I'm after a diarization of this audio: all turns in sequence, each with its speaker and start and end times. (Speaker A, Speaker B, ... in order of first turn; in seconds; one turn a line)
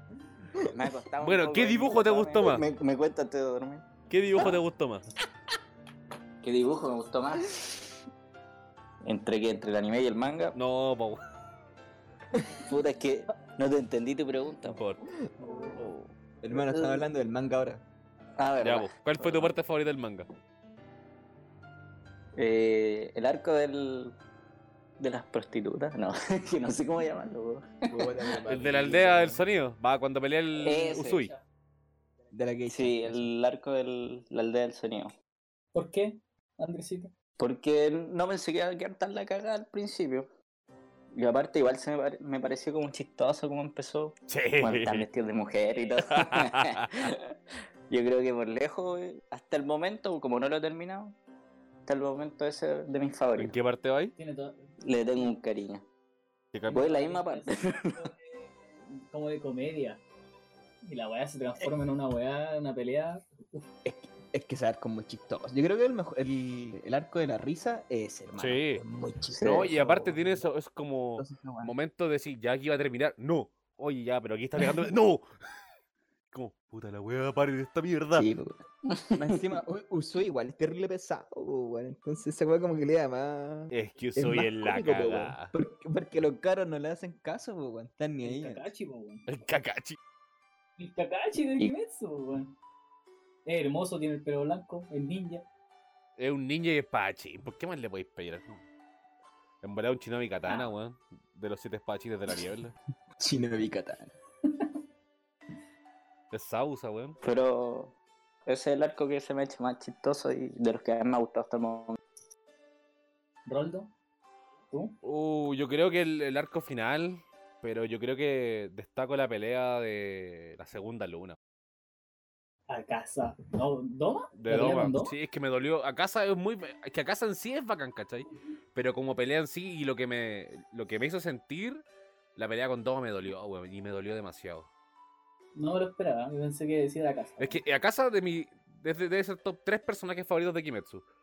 Speaker A: 0.5-0.9
Speaker B: 0.7-3.9
Speaker C: 1.2-2.6
Speaker C: 4.1-5.0
Speaker B: 6.4-7.8
Speaker B: 9.0-10.6
Speaker C: 10.5-11.2
Speaker B: 12.6-14.8
Speaker C: 14.7-15.0
Speaker D: 15.4-15.7
Speaker C: 15.7-16.1
Speaker A: 16.4-17.8
Speaker B: 16.5-17.0
Speaker B: 18.4-19.5
Speaker C: 18.6-20.3
Speaker B: 22.4-24.1
Speaker B: 25.0-28.3
Speaker A: 27.9-29.4
Speaker C: 28.5-31.3
Speaker B: 30.6-31.2
Speaker D: 30.7-31.4
Speaker A: 32.3-33.3
Speaker B: 32.7-35.1
Speaker D: 35.7-37.1
Speaker B: 37.4-40.3
Speaker B: 41.1-47.3
Speaker C: 44.3-45.0
Speaker D: 45.7-46.0
Speaker C: 46.1-46.9
Speaker B: 47.9-51.1
Speaker B: 51.9-53.5
Speaker C: 53.4-54.1
Speaker D: 54.1-54.7
Speaker B: 54.8-55.8
Speaker C: 56.5-56.8
Speaker D: 56.7-60.0
Speaker B: 56.7-58.0
Speaker D: 60.8-63.7
Speaker A: 63.8-70.5
Speaker C: 68.4-68.8
Speaker B: 69.3-69.7
Speaker C: 69.4-75.2
Speaker A: 71.2-71.7
Speaker C: 76.3-78.3
Speaker A: 78.1-78.6
Speaker B: 78.9-79.4
Speaker A: 79.1-88.6
Speaker C: 83.7-85.5
Speaker D: 88.2-89.3
Speaker C: 89.3-90.0
Speaker D: 90.8-92.5
Speaker D: 93.5-95.4
Speaker C: 96.2-98.6
Speaker C: 99.6-102.7
Speaker D: 100.5-100.7
Speaker A: 103.2-104.1
Speaker C: 106.3-107.2
Speaker B: 107.2-107.9
Speaker B: 108.5-112.0
Speaker D: 113.5-113.9
Speaker D: 114.7-115.0
Speaker C: 115.0-121.3
Speaker D: 122.7-125.1
Speaker C: 124.3-131.8
Speaker C: 132.3-134.7
Speaker D: 135.5-137.6
Speaker C: 137.4-141.0